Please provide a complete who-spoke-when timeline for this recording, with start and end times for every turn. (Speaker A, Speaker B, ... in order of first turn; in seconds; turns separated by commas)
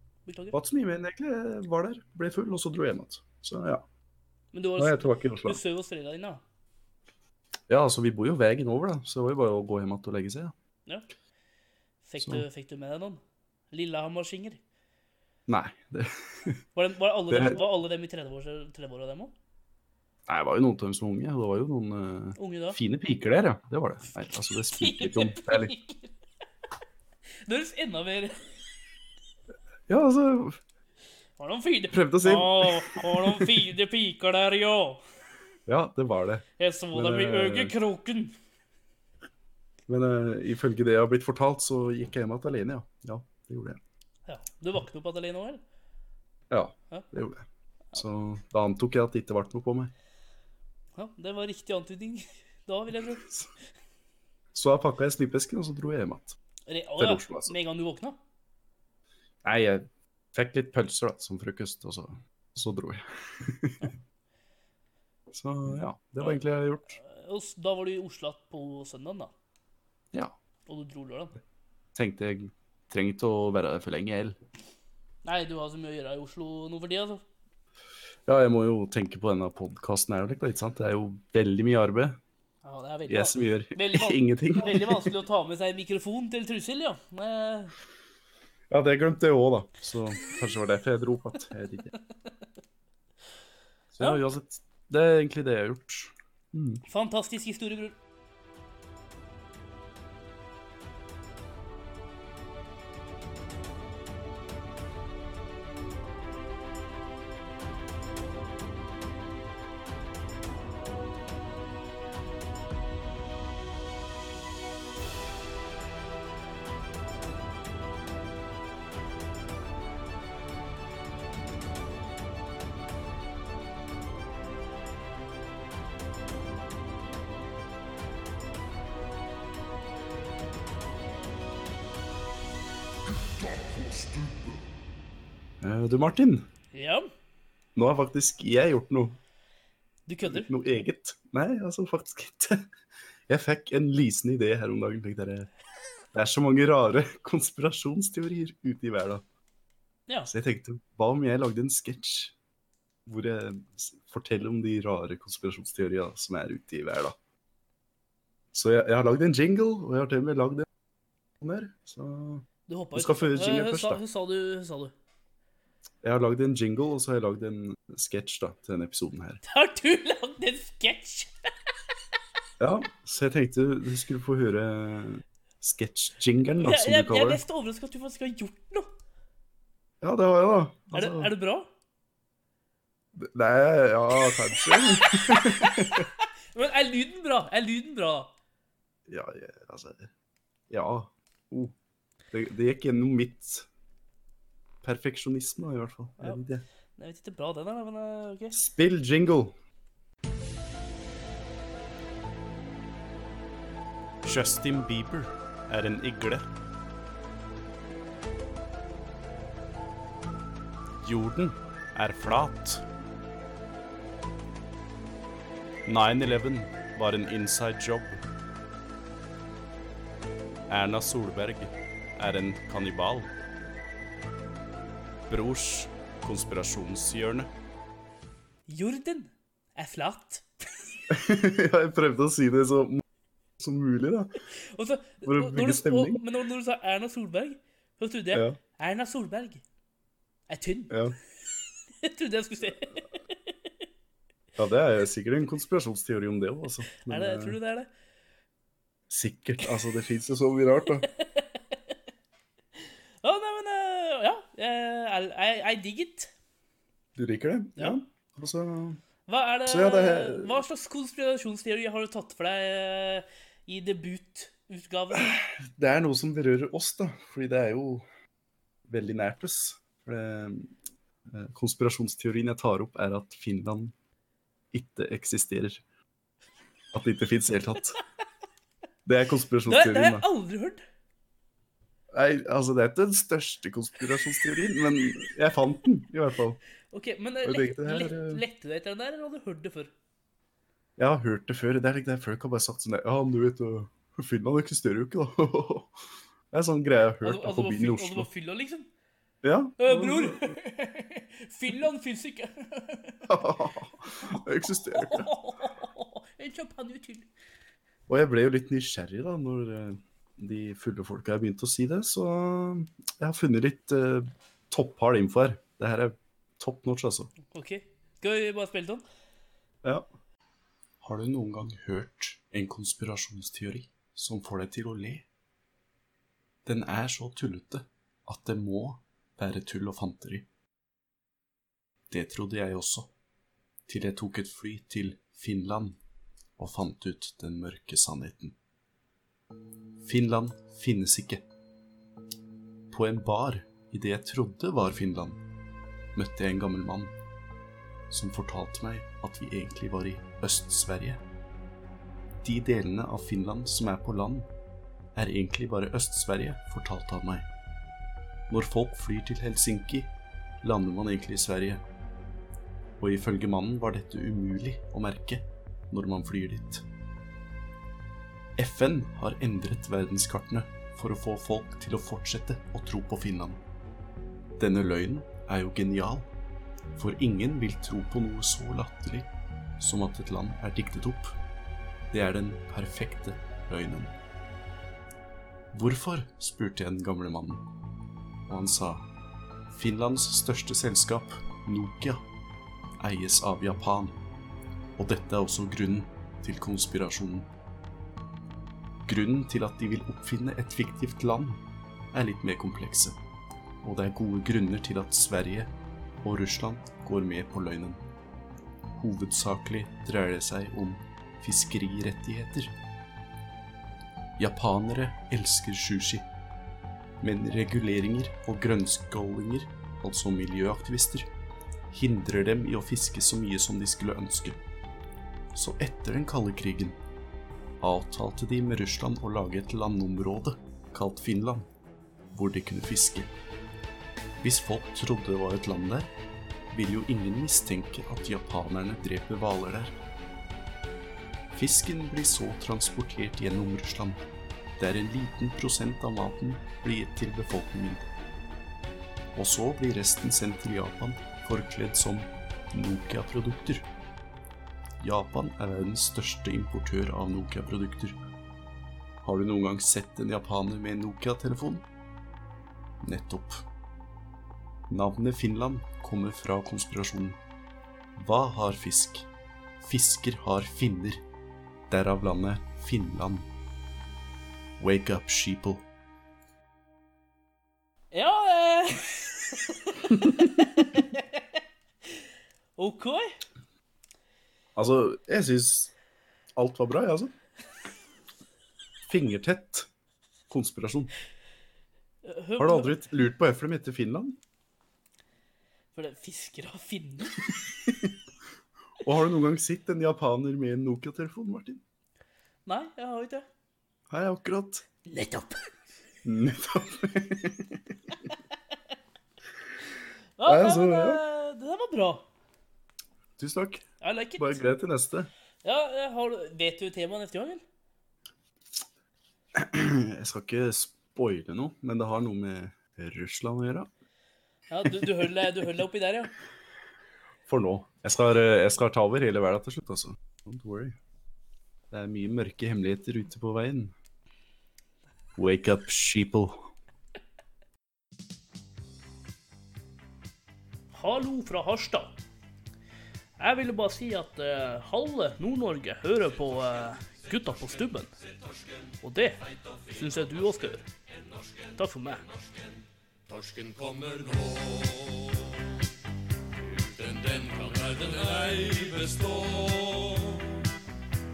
Speaker A: 0.3-0.6, Speaker B: 0.5-3.8, Speaker A: 4.5-6.4, Speaker B: 4.8-5.6, Speaker B: 7.7-10.5, Speaker A: 12.0-13.2, Speaker B: 12.2-12.4, Speaker A: 13.7-14.6, Speaker B: 15.5-16.6, Speaker A: 16.8-19.3, Speaker B: 17.3-17.6, Speaker B: 20.3-25.7, Speaker A: 22.4-22.8, Speaker A: 24.7-26.1, Speaker A: 27.5-28.4, Speaker B: 29.9-30.6, Speaker A: 31.4-35.0, Speaker B: 31.9-33.7, Speaker B: 35.7-37.8, Speaker A: 36.6-38.3, Speaker B: 39.9-43.8, Speaker A: 44.3-45.6, Speaker B: 46.5-49.9, Speaker A: 51.0-53.3, Speaker B: 53.2-53.5, Speaker B: 54.5-56.4, Speaker A: 56.7-58.2, Speaker B: 57.0-57.5, Speaker B: 59.4-63.9, Speaker B: 65.3-67.0, Speaker A: 67.0-69.3, Speaker A: 70.7-71.3, Speaker B: 72.0-74.4, Speaker A: 75.2-77.2, Speaker B: 78.3-82.2, Speaker A: 82.6-87.7, Speaker B: 83.1-85.1, Speaker B: 88.7-91.9, Speaker B: 93.9-96.8, Speaker A: 96.9-98.0, Speaker B: 135.6-136.5, Speaker A: 136.7-137.1, Speaker B: 137.8-139.2, Speaker A: 140.1-140.5, Speaker B: 140.2-142.7, Speaker B: 143.3-145.5, Speaker B: 146.1-149.2, Speaker B: 150.3-152.3, Speaker B: 153.1-157.2, Speaker B: 158.5-160.7, Speaker B: 161.4-164.0, Speaker A: 162.7-164.9, Speaker B: 166.0-169.4, Speaker A: 169.4-171.3, Speaker B: 172.6-177.4, Speaker A: 176.6-178.9, Speaker B: 180.0-181.3, Speaker A: 180.9-181.7, Speaker B: 183.2-186.1, Speaker A: 184.5-188.3, Speaker B: 189.1-190.1, Speaker B: 190.7-191.7, Speaker B: 192.3-193.7, Speaker B: 194.8-196.7, Speaker A: 197.0-198.6, Speaker B: 198.5-199.6, Speaker B: 204.2-206.5, Speaker B: 211.0-212.8, Speaker B: 215.9-218.2, Speaker B: 220.7-223.3, Speaker B: 225.3-227.5, Speaker A: 228.7-230.5, Speaker B: 231.1-233.0, Speaker B: 233.6-234.3, Speaker A: 234.6-239.6, Speaker B: 235.2-236.2, Speaker B: 238.3-238.6, Speaker A: 240.5-241.0, Speaker B: 240.9-241.2, Speaker A: 242.0-243.3, Speaker B: 244.6-247.6, Speaker A: 247.0-247.9, Speaker B: 249.1-251.1, Speaker A: 251.1-251.8, Speaker A: 253.2-256.3, Speaker B: 257.2-259.0, Speaker A: 259.3-265.4, Speaker B: 259.7-260.6, Speaker B: 265.1-268.1, Speaker B: 268.9-270.7, Speaker B: 271.3-273.9, Speaker B: 274.7-275.8, Speaker B: 276.9-278.0, Speaker B: 279.1-280.2, Speaker A: 279.7-280.8, Speaker B: 282.1-286.6, Speaker A: 286.9-289.9, Speaker B: 287.4-288.4, Speaker B: 291.0-296.0, Speaker B: 296.5-298.3, Speaker A: 297.2-298.9, Speaker B: 299.4-300.6, Speaker A: 299.8-303.4, Speaker B: 303.3-305.3, Speaker A: 304.3-307.3, Speaker B: 308.1-317.3, Speaker A: 317.5-319.0, Speaker B: 321.0-325.3, Speaker B: 326.6-330.5, Speaker B: 332.1-333.1, Speaker B: 333.9-336.0, Speaker B: 336.6-338.6, Speaker B: 340.0-341.4, Speaker B: 342.9-345.4, Speaker B: 346.1-347.1, Speaker B: 348.1-351.2, Speaker B: 352.4-354.5, Speaker B: 355.1-357.5, Speaker B: 358.5-360.1, Speaker B: 360.6-361.8, Speaker B: 363.0-366.9, Speaker B: 368.6-373.6, Speaker B: 374.6-376.3, Speaker B: 376.9-379.3, Speaker B: 379.8-381.4, Speaker B: 382.1-384.2, Speaker B: 385.7-387.7, Speaker B: 388.5-389.1, Speaker B: 389.7-392.2, Speaker B: 393.0-394.2, Speaker B: 395.0-397.5, Speaker B: 399.1-401.6, Speaker B: 402.1-403.2, Speaker B: 403.8-405.7, Speaker B: 406.2-408.0, Speaker B: 408.9-412.7, Speaker B: 414.4-416.3, Speaker B: 417.2-421.3, Speaker B: 421.9-424.6, Speaker B: 425.5-427.0, Speaker B: 427.8-431.7, Speaker B: 432.3-433.3, Speaker B: 434.4-436.1, Speaker B: 436.7-440.0, Speaker B: 441.6-444.2, Speaker B: 444.8-448.1, Speaker B: 449.3-453.9, Speaker B: 455.0-458.2, Speaker B: 459.2-461.9, Speaker B: 463.0-463.6, Speaker B: 464.9-467.4, Speaker B: 468.2-469.3, Speaker B: 469.8-471.2, Speaker B: 471.9-473.5, Speaker B: 474.8-475.9, Speaker A: 478.1-481.4, Speaker A: 482.8-483.4, Speaker B: 484.8-485.9, Speaker B: 486.6-487.3, Speaker B: 489.1-489.9, Speaker B: 490.5-491.1, Speaker A: 492.2-493.0, Speaker B: 492.6-494.4, Speaker A: 495.9-497.4, Speaker B: 497.9-498.1, Speaker B: 499.0-501.8, Speaker A: 502.7-503.5, Speaker B: 504.1-504.9, Speaker A: 505.1-505.5, Speaker B: 506.2-507.8, Speaker A: 510.4-512.3, Speaker B: 510.4-511.2, Speaker B: 513.4-513.8, Speaker A: 514.0-514.6, Speaker B: 514.4-515.3, Speaker A: 515.6-517.6, Speaker B: 519.5-523.9, Speaker A: 524.7-526.3, Speaker B: 527.5-531.0, Speaker B: 531.9-533.9, Speaker B: 535.4-536.7, Speaker A: 540.9-542.2, Speaker A: 543.4-548.1, Speaker A: 549.0-549.4, Speaker A: 549.9-550.9, Speaker A: 551.8-552.2, Speaker C: 553.3-555.4, Speaker C: 556.6-560.6